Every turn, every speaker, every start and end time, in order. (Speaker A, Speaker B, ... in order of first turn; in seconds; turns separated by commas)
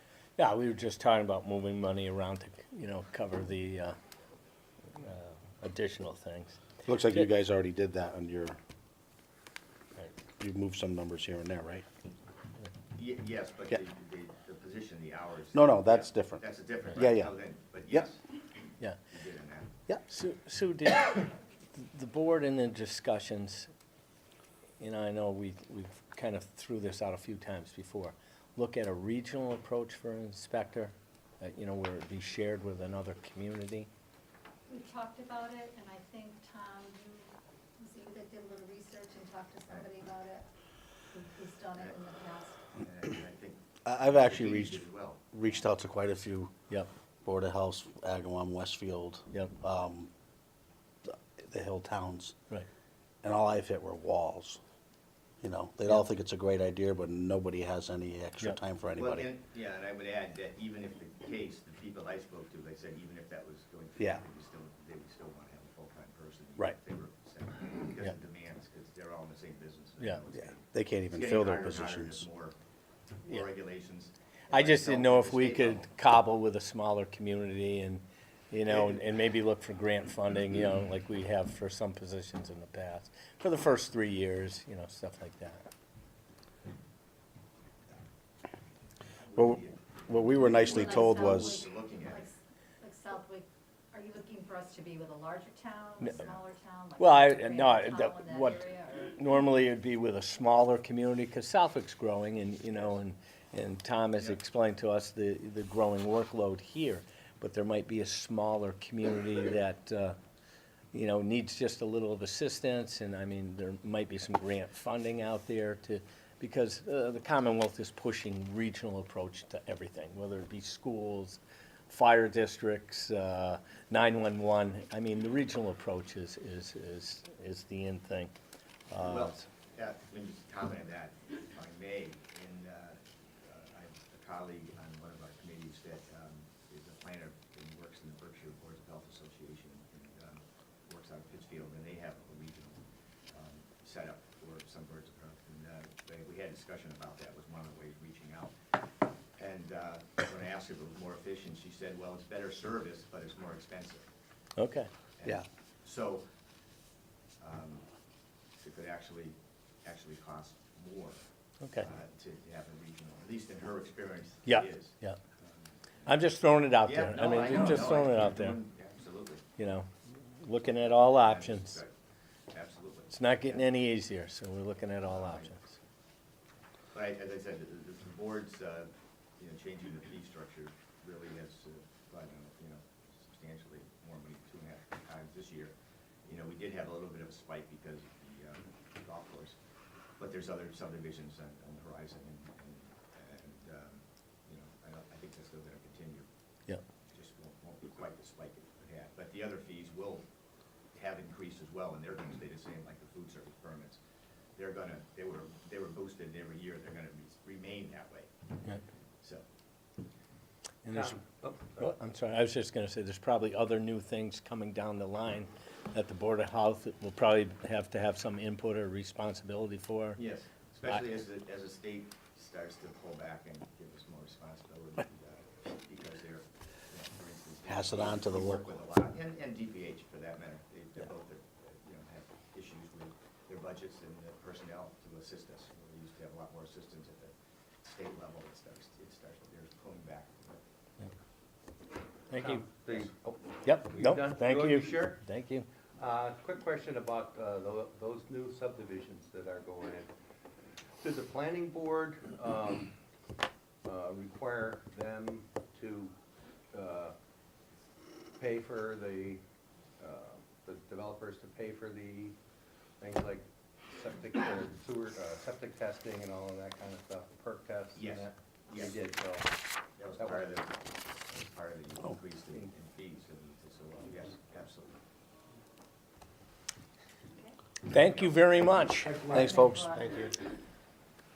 Speaker A: 0.4-4.0, Speaker A: 4.9-7.3, Speaker B: 6.8-8.6, Speaker B: 10.3-11.8, Speaker C: 12.9-18.2, Speaker B: 15.5-16.4, Speaker B: 16.9-17.3, Speaker C: 19.1-19.7, Speaker A: 20.1-23.7, Speaker A: 24.8-33.9, Speaker D: 34.7-40.5, Speaker D: 41.1-42.6, Speaker C: 41.8-42.0, Speaker C: 42.7-45.7, Speaker B: 43.9-46.5, Speaker B: 47.2-50.1, Speaker B: 51.0-52.3, Speaker B: 53.2-54.6, Speaker B: 55.4-59.3, Speaker C: 59.0-72.6, Speaker B: 64.0-64.2, Speaker B: 70.3-72.2, Speaker C: 73.2-75.9, Speaker A: 74.5-85.6, Speaker C: 78.7-79.0, Speaker C: 89.1-92.3, Speaker B: 89.3-91.7, Speaker D: 90.6-99.2, Speaker A: 97.0-110.2, Speaker A: 110.9-128.3, Speaker A: 128.9-129.4, Speaker C: 129.0-148.5, Speaker C: 149.3-154.1, Speaker A: 154.6-154.9, Speaker C: 155.2-156.2, Speaker C: 157.4-157.8, Speaker C: 158.6-161.2, Speaker C: 161.8-166.1, Speaker A: 164.4-165.2, Speaker A: 166.1-168.6, Speaker C: 166.8-169.4, Speaker A: 169.6-171.8, Speaker C: 171.2-171.9, Speaker C: 172.5-173.7, Speaker A: 173.1-175.7, Speaker C: 175.1-175.5, Speaker C: 176.9-185.7, Speaker C: 186.2-189.6, Speaker C: 190.2-196.3, Speaker C: 197.1-200.2, Speaker C: 200.9-204.0, Speaker C: 204.6-208.3, Speaker A: 210.8-211.2, Speaker E: 210.8-211.9, Speaker A: 211.8-220.2, Speaker C: 220.2-237.3, Speaker B: 227.7-228.7, Speaker C: 237.9-240.6, Speaker A: 242.3-242.7, Speaker E: 242.3-245.2, Speaker A: 243.6-245.7, Speaker E: 246.0-250.1, Speaker E: 251.0-252.9, Speaker E: 253.8-256.1, Speaker E: 256.7-257.1, Speaker E: 258.4-259.4, Speaker E: 260.0-262.4, Speaker E: 263.0-269.5, Speaker C: 267.9-269.1, Speaker C: 270.0-275.0, Speaker E: 270.2-270.6, Speaker A: 277.8-279.3, Speaker E: 279.1-280.3, Speaker B: 279.3-280.1, Speaker D: 279.4-279.8